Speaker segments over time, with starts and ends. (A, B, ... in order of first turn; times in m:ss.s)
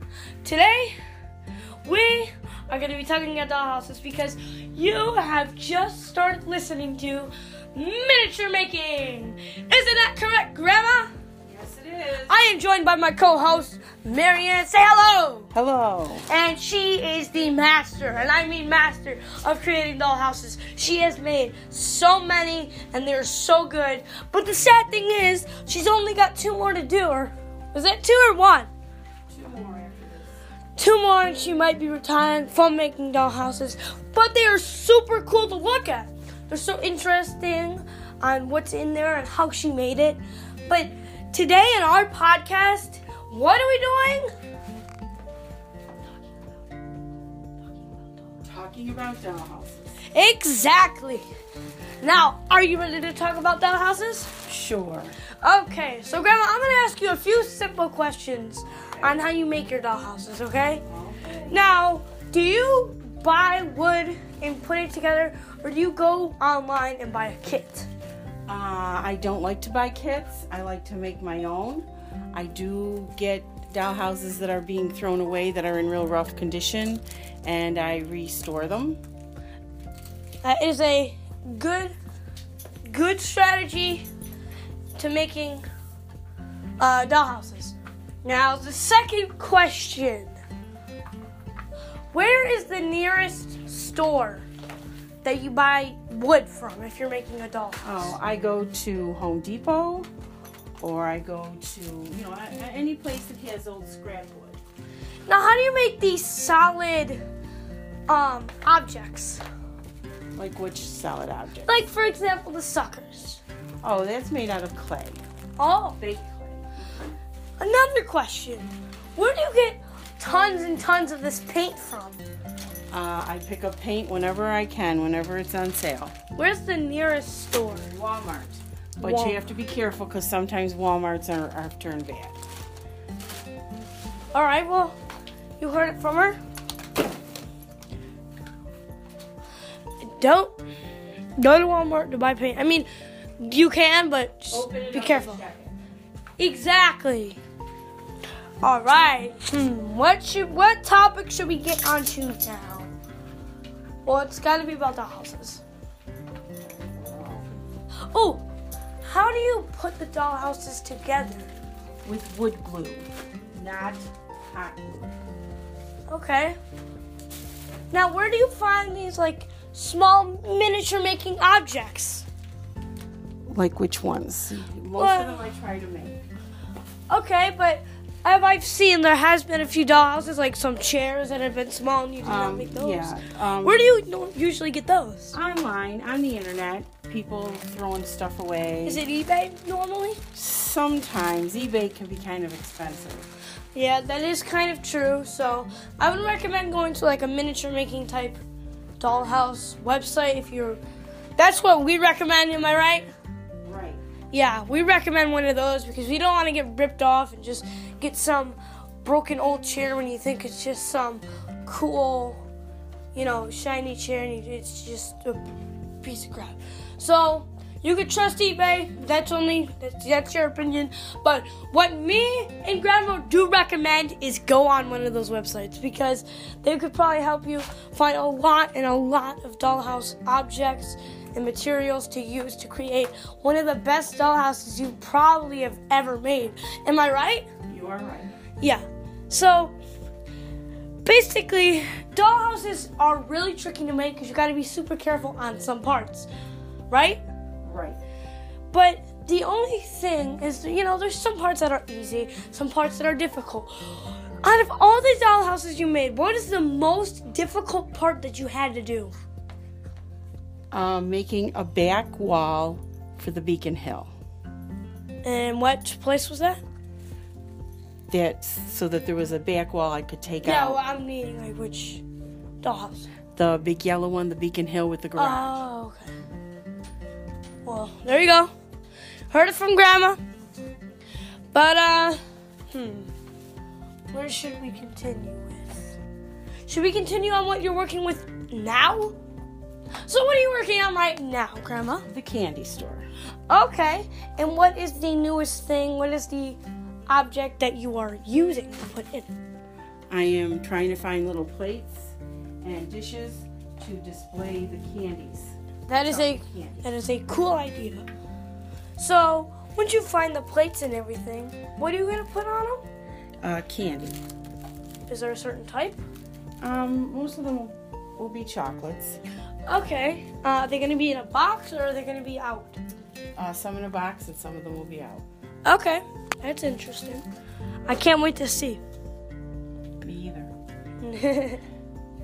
0:00.4-0:00.9 A
0:01.8-0:11.1 A
0:11.5-0:12.4 B
0:12.3-0:15.5 A
0:15.5-0:16.3 B
0:16.3-0:28.7 A
0:29.3-0:30.4 B
0:30.8-0:44.3 A
0:48.4-0:50.0 B
0:50.1-0:51.2 A
0:52.0-0:54.4 A
0:54.4-0:55.1 B
0:55.4-1:00.8 A
0:58.9-0:59.2 B
1:00.8-1:01.6 B
1:01.4-1:07.9 A
1:08.5-1:19.0 B
1:20.4-1:21.9 A
1:22.9-1:24.0 A
1:25.0-1:25.6 A
1:26.8-1:30.3 A
1:32.1-1:34.5 A
1:35.2-1:38.1 A
1:37.8-1:40.1 B
1:40.8-1:44.6 B
1:45.3-1:47.2 A
1:48.1-1:49.4 A
1:50.3-1:51.7 B
1:51.6-1:53.4 A
1:53.8-1:55.2 B
1:55.6-1:56.0 A
1:56.0-1:57.1 B
1:57.6-2:02.2 A
2:02.9-2:06.1 B
2:06.3-2:07.9 A
2:07.8-2:12.4 B
2:09.0-2:09.4 A
2:14.3-2:15.0 A
2:15.6-2:16.4 A
2:20.0-2:20.6 A
2:21.4-2:22.9 A
2:23.4-2:25.4 A
2:24.5-2:25.8 B
2:26.4-2:27.4 A
2:28.6-2:32.9 A
2:34.0-2:35.6 A
2:36.6-2:37.5 B
2:38.0-2:38.4 A
2:39.0-2:41.5 A
2:42.0-2:45.1 B
2:46.1-2:46.6 A
2:47.9-2:52.2 A
2:53.5-2:56.2 B
2:55.0-2:55.4 A
2:57.1-3:05.4 A
3:02.2-3:03.9 B
3:05.3-3:09.0 B
3:08.8-3:10.2 A
3:10.3-3:13.3 B
3:13.7-3:18.4 A
3:19.0-3:20.8 A
3:21.4-3:23.1 A
3:23.6-3:24.0 B
3:24.3-3:32.4 A
3:33.1-3:35.4 A
3:36.0-3:57.5 A
3:57.7-3:58.3 B
3:58.6-3:59.8 A
4:01.0-4:06.3 A
4:06.9-4:07.2 A
4:07.6-4:08.0 B
4:08.7-4:19.1 A
4:20.7-4:24.1 B
4:25.2-4:26.6 A
4:28.1-4:30.8 B
4:30.4-4:32.0 A
4:32.6-4:33.1 A
4:33.4-4:35.6 B
4:35.2-4:36.1 A
4:37.6-4:38.5 A
4:39.3-4:40.2 A
4:41.5-4:42.2 A
4:42.7-4:43.1 A
4:44.1-4:45.9 A
4:46.7-4:49.1 A
4:50.0-4:52.1 A
4:52.1-4:53.1 B
4:53.5-4:59.3 A
5:00.1-5:06.8 B
5:05.9-5:08.1 A
5:09.0-5:12.8 A
5:13.4-5:14.2 B
5:15.1-5:16.0 A
5:16.6-5:19.2 B
5:19.7-5:22.8 A
5:23.4-5:25.2 B
5:25.6-5:27.2 A
5:27.9-5:28.8 A
5:30.0-5:30.5 B
5:31.0-5:31.6 A